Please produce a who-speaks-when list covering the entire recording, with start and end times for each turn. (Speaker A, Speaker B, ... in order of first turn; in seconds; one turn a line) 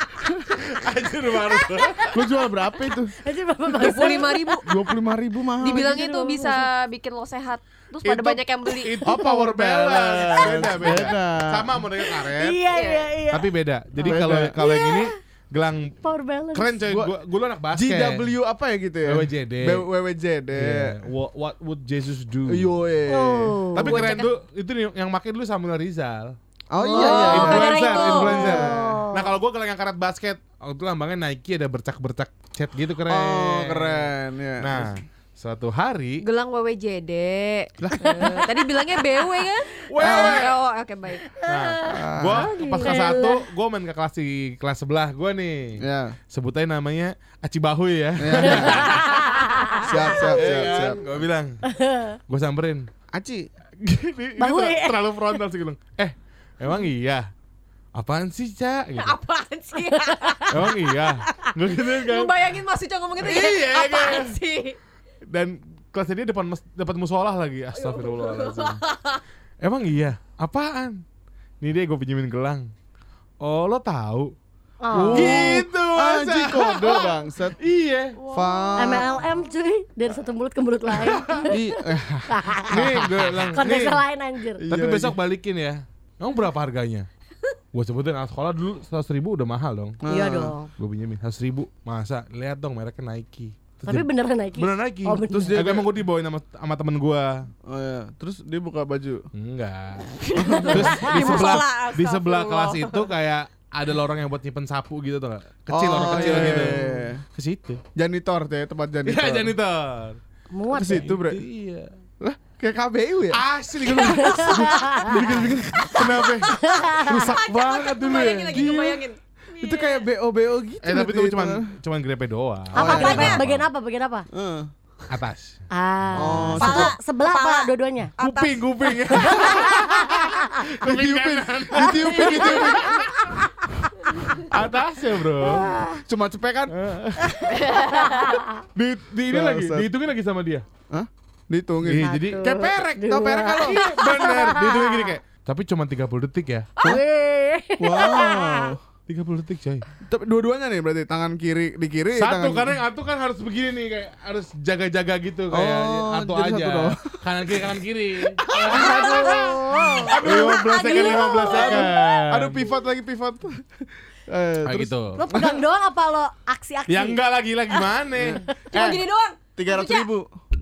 Speaker A: 0.2-0.5
Speaker B: 0.5-2.2
Speaker C: 1.5-4.9
Speaker A: 2.1-3.1
Speaker D: 3.7-4.7
Speaker A: 4.6-5.8
Speaker C: 5.6-6.6
Speaker D: 5.6-9.0
Speaker B: 8.0-12.6
Speaker C: 9.0-11.2
Speaker A: 9.1-11.8
Speaker C: 12.0-15.1
Speaker D: 12.7-13.1
Speaker B: 13.3-16.0
Speaker A: 14.0-14.6
Speaker C: 16.0-16.9
Speaker B: 16.5-18.3
Speaker A: 16.9-17.1
Speaker A: 17.7-21.0
Speaker B: 19.1-19.9
Speaker B: 20.5-22.7
Speaker A: 22.5-23.6
Speaker C: 23.1-24.1
Speaker B: 23.7-26.4
Speaker D: 23.8-24.3
Speaker A: 26.7-29.0
Speaker C: 26.8-29.4
Speaker D: 26.9-28.6
Speaker B: 27.0-36.2
Speaker A: 33.1-34.9
Speaker D: 36.2-41.3
Speaker A: 37.8-38.2
Speaker C: 38.0-38.8
Speaker B: 39.9-40.5
Speaker A: 40.0-40.4
Speaker C: 41.2-43.4
Speaker B: 41.4-49.4
Speaker A: 41.8-42.5
Speaker A: 45.8-46.1
Speaker A: 48.2-49.0
Speaker C: 48.5-50.3
Speaker A: 49.8-51.2
Speaker B: 50.2-51.6
Speaker C: 51.6-52.2
Speaker B: 52.3-52.9
Speaker A: 53.1-53.5
Speaker B: 53.8-57.3
Speaker C: 54.4-55.4
Speaker B: 57.9-59.1
Speaker D: 59.0-61.1
Speaker C: 59.9-60.8
Speaker B: 60.5-62.3
Speaker D: 61.9-64.8
Speaker B: 63.2-64.3
Speaker B: 65.3-68.8
Speaker D: 67.7-69.2
Speaker B: 69.6-71.0
Speaker B: 71.6-72.7
Speaker B: 73.4-74.3
Speaker C: 74.8-75.5
Speaker B: 74.9-78.2
Speaker A: 75.1-77.6
Speaker D: 78.2-79.1
Speaker A: 78.3-79.1
Speaker C: 78.8-84.6
Speaker B: 80.9-81.5
Speaker A: 81.5-83.4
Speaker B: 82.7-84.0
Speaker A: 84.6-85.2
Speaker B: 84.6-87.1
Speaker B: 87.7-90.0
Speaker A: 90.0-90.5
Speaker C: 90.1-90.7
Speaker B: 90.8-97.5
Speaker C: 93.8-95.7
Speaker A: 95.3-95.9
Speaker A: 97.7-99.3
Speaker B: 99.3-107.8
Speaker D: 100.2-103.1
Speaker A: 100.3-101.1
Speaker C: 100.4-101.5
Speaker A: 105.7-107.2
Speaker A: 107.9-109.5
Speaker B: 109.0-110.2
Speaker C: 110.5-111.1
Speaker A: 110.7-111.4
Speaker B: 110.8-111.9
Speaker A: 112.2-113.4
Speaker B: 113.3-118.8
Speaker C: 113.9-115.2
Speaker A: 114.0-116.3
Speaker D: 116.4-120.0
Speaker C: 116.5-117.3
Speaker A: 118.5-119.0
Speaker A: 119.6-121.7
Speaker B: 120.8-123.7
Speaker C: 122.7-124.2
Speaker A: 122.7-123.4
Speaker D: 122.8-123.4
Speaker A: 124.3-124.7
Speaker B: 125.1-126.8
Speaker C: 125.7-128.1
Speaker A: 126.1-126.9
Speaker D: 126.6-129.7
Speaker B: 128.2-133.3
Speaker C: 129.4-130.3
Speaker A: 130.8-133.1
Speaker C: 131.8-133.4
Speaker B: 134.3-135.7
Speaker C: 135.4-135.9
Speaker A: 136.1-136.7
Speaker B: 136.7-137.5
Speaker C: 137.2-138.6
Speaker D: 137.5-138.4
Speaker B: 138.7-140.7
Speaker A: 139.3-139.9
Speaker A: 140.9-142.2
Speaker B: 141.8-143.1
Speaker C: 142.0-145.2
Speaker A: 142.9-143.9
Speaker B: 143.6-146.7
Speaker C: 146.8-148.7
Speaker A: 147.8-148.8
Speaker B: 149.1-149.8
Speaker A: 150.0-152.7
Speaker B: 152.1-162.7
Speaker A: 155.5-157.5
Speaker A: 158.4-159.2
Speaker D: 158.5-162.1
Speaker C: 158.6-161.9
Speaker A: 160.2-163.6
Speaker A: 164.3-165.6
Speaker B: 164.7-165.3
Speaker C: 165.1-167.9
Speaker B: 166.9-168.4
Speaker A: 168.2-169.0
Speaker D: 168.7-170.1
Speaker A: 169.6-170.3